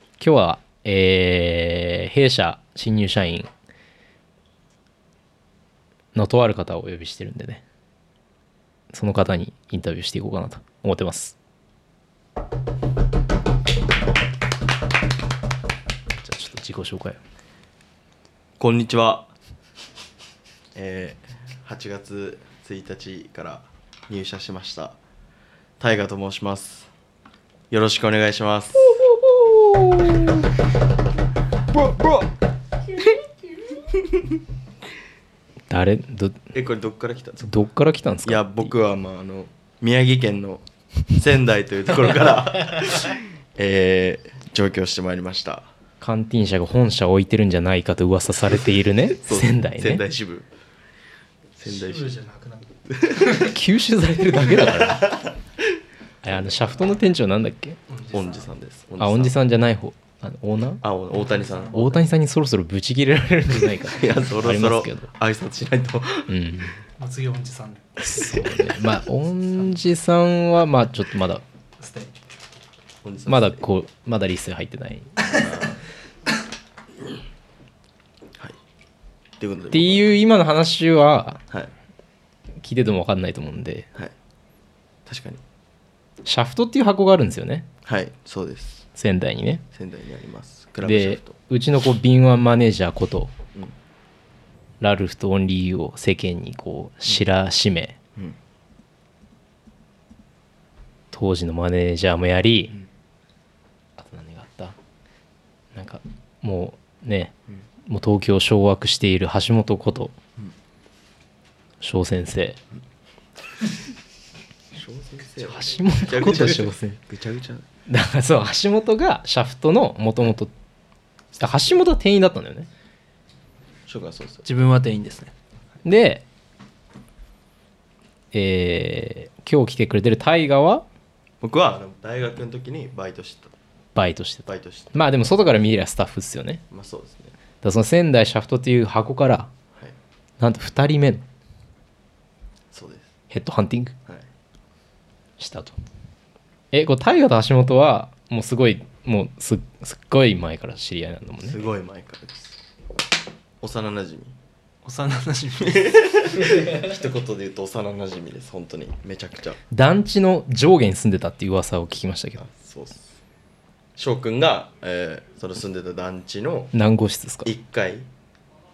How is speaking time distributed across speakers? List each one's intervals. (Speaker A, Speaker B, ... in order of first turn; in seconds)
Speaker A: 0.2-3.5, 6.2-7.6, 8.9-11.4, 16.2-17.2, 29.0-30.4, 31.8-32.2, 35.7-36.5, 37.5-38.7, 46.0-50.0, 53.3-55.1, 56.2-57.8, 59.0-60.8, 61.7-65.1, 66.3-66.8, 68.0-71.4, 73.3-75.1, 79.7-81.4, 82.6-83.9, 86.3-87.7, 89.0-89.6, 90.8-93.3, 94.8-98.0, 101.1-102.8, 104.0-104.8, 105.8-107.3, 107.9-110.2, 111.8-112.6, 115.4-117.0, 117.9-120.5, 121.4-122.7, 125.8-126.2, 128.3-130.8, 133.9-136.6, 137.6-139.5, 140.4-141.2, 143.3-143.9, 145.4-145.8, 146.7-151.7, 159.7-162.4, 166.7-167.5
Speaker B: 18.6-19.3, 20.8-25.0, 25.8-26.9, 27.7-29.0, 36.5-37.6, 38.2-45.7, 49.2-50.5, 51.6-52.1, 53.0-53.4, 54.8-55.3, 56.2-57.0, 58.1-59.4, 60.8-61.9, 63.9-66.3, 73.0-73.6, 75.4-75.8, 79.4-80.1, 85.1-85.4, 87.8-88.8, 89.7-91.4, 114.7-117.7, 121.3-121.8, 123.9-124.5, 131.4-133.6, 134.5-135.0, 136.7-137.3, 142.7-143.1, 151.4-152.6, 153.6-154.3, 155.6-159.6, 162.4-163.1, 164.0-166.7, 167.4-168.1
Speaker C: 51.7-52.7, 57.9-58.5, 61.1-62.0, 67.0-68.1, 71.8-72.2, 124.5-125.3, 154.8-156.6